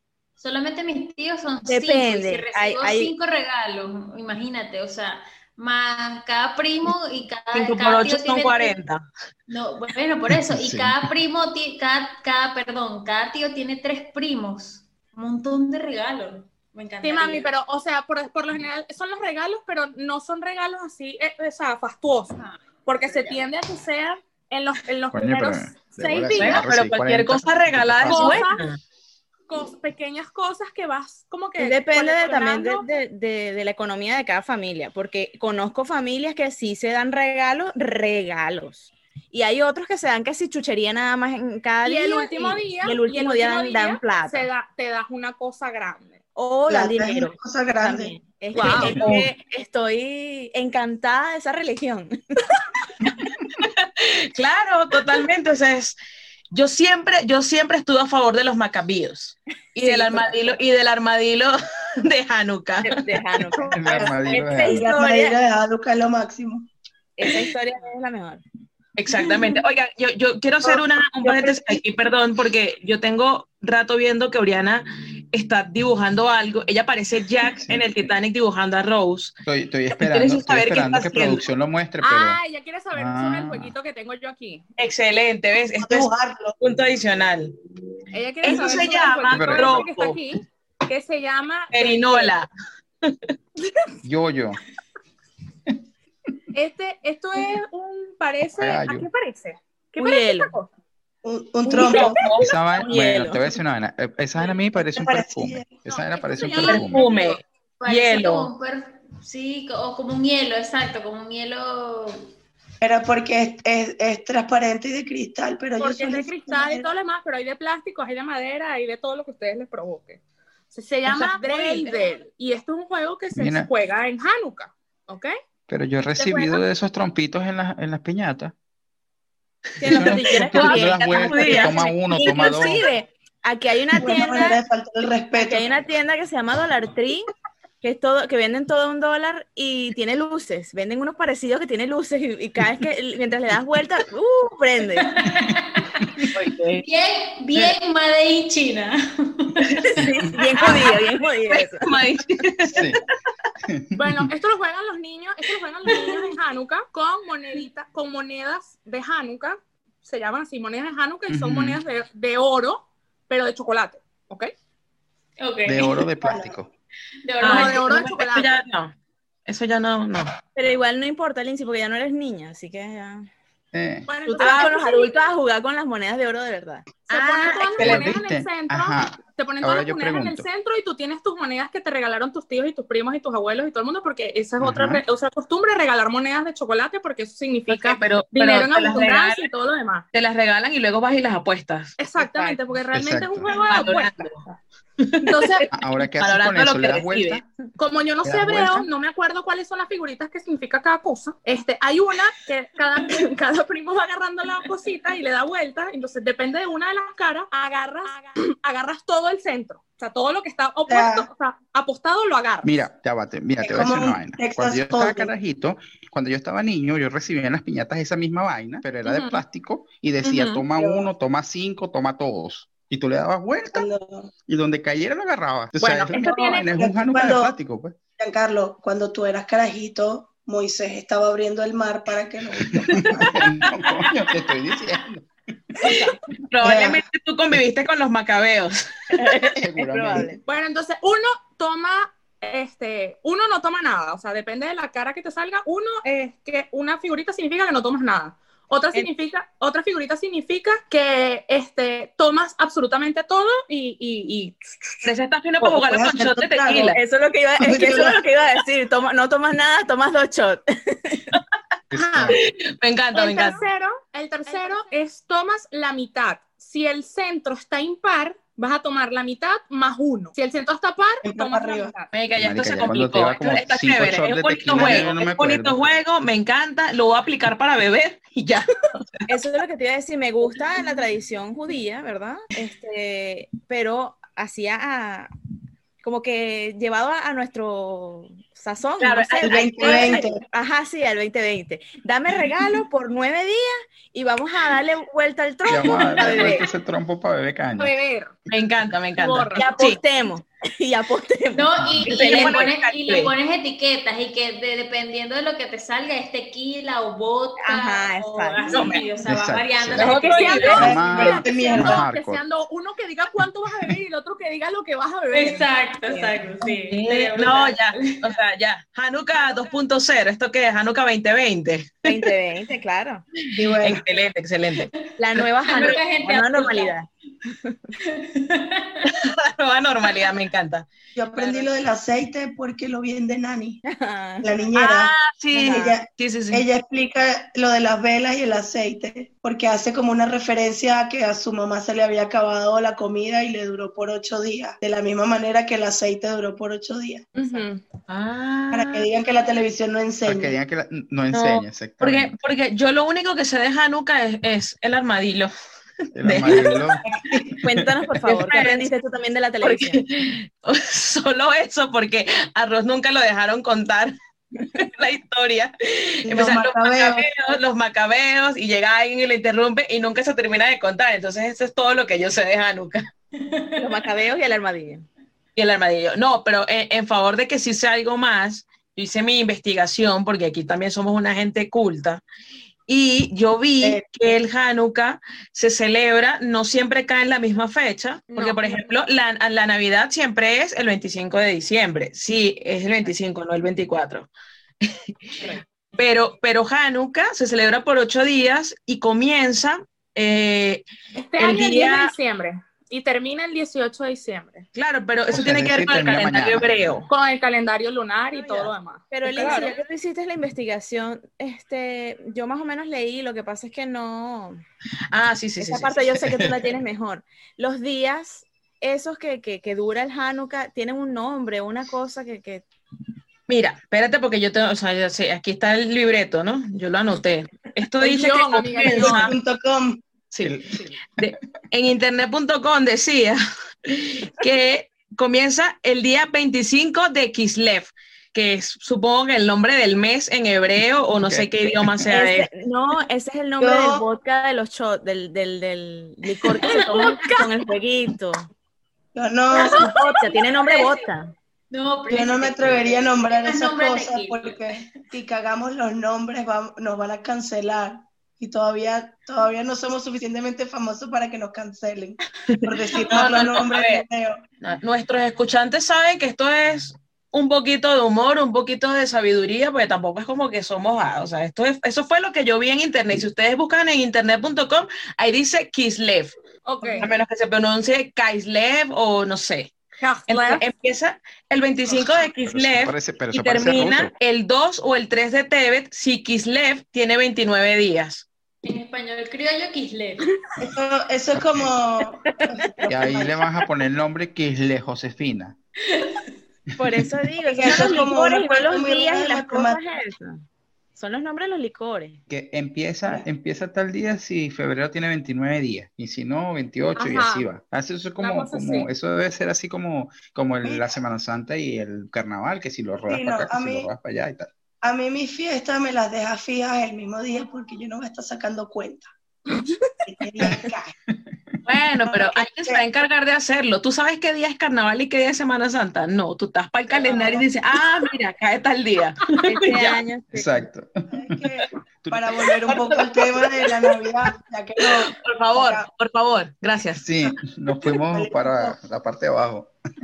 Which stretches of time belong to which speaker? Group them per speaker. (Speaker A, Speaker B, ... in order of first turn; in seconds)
Speaker A: 0.4-8.7, 9.5-17.5, 106.4-106.7, 107.8-112.3, 134.0-134.6, 145.2-146.2, 146.8-149.9, 165.4-166.0, 167.2-167.8, 301.5-311.0, 315.3-318.3, 325.6-326.9, 328.0-329.1, 373.4-373.8, 449.8-451.1, 451.7-454.9, 488.6-490.2
Speaker B: 1.7-3.1, 31.6-44.5, 46.4-52.1, 59.8-60.5, 62.8-65.4, 67.2-68.4, 71.3-71.8, 100.0-100.5, 102.8-103.4, 129.8-134.6, 135.3-137.3, 137.8-145.1, 149.9-151.9, 170.5-173.3, 174.4-177.1, 192.2-192.6, 235.8-236.2, 239.1-240.4, 256.9-261.3, 279.3-285.3, 286.0-296.6, 299.6-302.7, 307.6-308.9, 316.1-316.3, 322.0-323.2, 325.2-327.8, 333.9-334.5, 335.6-335.9, 347.4-347.6, 357.6-360.0, 373.8-375.1, 408.3-414.6, 415.6-422.6, 442.1-448.5, 449.6-451.3, 496.8-500.4, 500.9-502.2, 529.5-530.6
Speaker C: 7.5-9.0, 26.3-28.8, 48.6-49.3, 53.6-56.0, 56.5-63.0, 69.0-79.4, 79.9-81.4, 84.8-87.5, 88.4-90.2, 91.7-92.5, 101.7-102.5, 106.5-108.5, 121.1-122.0, 129.8-131.8, 146.3-146.8, 151.4-153.0, 155.9-156.2, 167.4-168.9, 169.4-170.3, 174.3-174.8, 177.1-178.1, 187.7-189.5, 190.1-192.0, 193.5-194.4, 195.0-195.7, 196.2-197.4, 225.8-226.2, 233.2-234.1, 236.5-239.3, 255.0-257.0, 262.3-263.6, 272.1-279.2, 289.0-290.2, 298.5-300.0, 302.1-303.3, 308.7-309.0, 310.0-310.9, 316.9-322.1, 323.5-326.0, 329.1-331.6, 334.7-336.6, 348.1-349.1, 351.3-355.5, 356.2-356.8, 358.2-358.9, 359.6-364.1, 364.8-373.1, 375.5-382.2, 382.9-394.3, 394.8-402.1, 404.7-407.1, 415.1-416.0, 423.5-429.3, 431.2-442.5, 462.5-464.0, 464.6-476.4, 477.0-479.7, 480.3-488.2, 521.6-530.0, 534.8-537.0
Speaker D: 10.5-11.1, 25.1-28.4, 63.7-64.8, 79.5-82.4, 82.9-83.7, 89.3-89.9, 94.0-94.6, 98.5-99.1, 102.4-107.0, 123.3-123.7, 125.7-128.5, 129.9-132.8, 152.7-153.0, 153.7-154.3, 161.3-161.8, 165.7-166.7, 173.7-174.1, 177.8-180.4, 184.6-185.0, 192.9-193.5, 195.7-197.4, 198.2-198.9, 212.6-223.9, 224.5-228.0, 232.7-235.3, 239.6-240.4, 261.9-262.4, 272.3-275.9, 295.7-298.0, 309.2-312.4, 350.2-352.3, 356.1-357.0, 357.8-358.2, 405.3-407.0, 430.4-431.3, 441.2-442.0, 482.4-484.1, 491.4-491.7, 492.9-495.6, 502.3-514.5, 520.4-521.6, 530.3-531.4, 532.0-532.3, 537.0-539.7
Speaker E: 17.0-22.3, 22.8-26.6, 28.1-28.6, 29.5-32.9, 41.8-46.2, 48.5-49.0, 82.0-84.6, 88.1-92.3, 96.5-100.7, 105.9-107.4, 115.8-120.2, 120.7-125.3, 126.2-126.6, 153.9-164.5, 167.4-168.5, 174.1-175.1, 177.1-190.0, 192.0-194.3, 195.3-195.7, 197.8-212.8, 219.0-219.4, 220.2-220.7, 226.0-226.8, 240.4-255.0, 261.9-262.4, 263.1-272.1, 297.8-298.3, 299.2-299.6, 310.0-315.7, 347.3-347.8, 388.4-388.8, 401.1-404.6, 407.1-409.8, 428.0-429.4, 446.4-447.5, 449.7-450.2, 476.6-477.1, 480.0-480.6, 506.9-507.5, 508.2-508.9
Speaker F: 46.7-48.1, 63.6-66.7, 85.8-86.5, 101.2-102.3, 104.8-105.8, 112.8-116.9, 133.9-135.7, 166.2-166.5, 210.9-211.3, 213.6-215.3, 220.7-221.1, 223.7-224.3, 226.2-227.5, 228.2-233.3, 236.6-237.0, 255.6-257.0, 257.6-258.2, 271.2-271.9, 289.4-290.4, 310.8-312.1, 323.5-324.0, 331.1-333.8, 334.4-347.3, 348.7-350.6, 357.1-357.6, 366.2-367.3, 383.8-384.3, 428.9-430.0, 443.6-444.0, 449.1-449.9, 452.1-464.4, 490.6-493.6, 497.5-499.8, 510.6-511.0, 513.1-513.9, 514.8-519.1, 520.0-520.9, 522.0-522.8, 526.9-527.5, 531.1-535.9, 537.2-538.8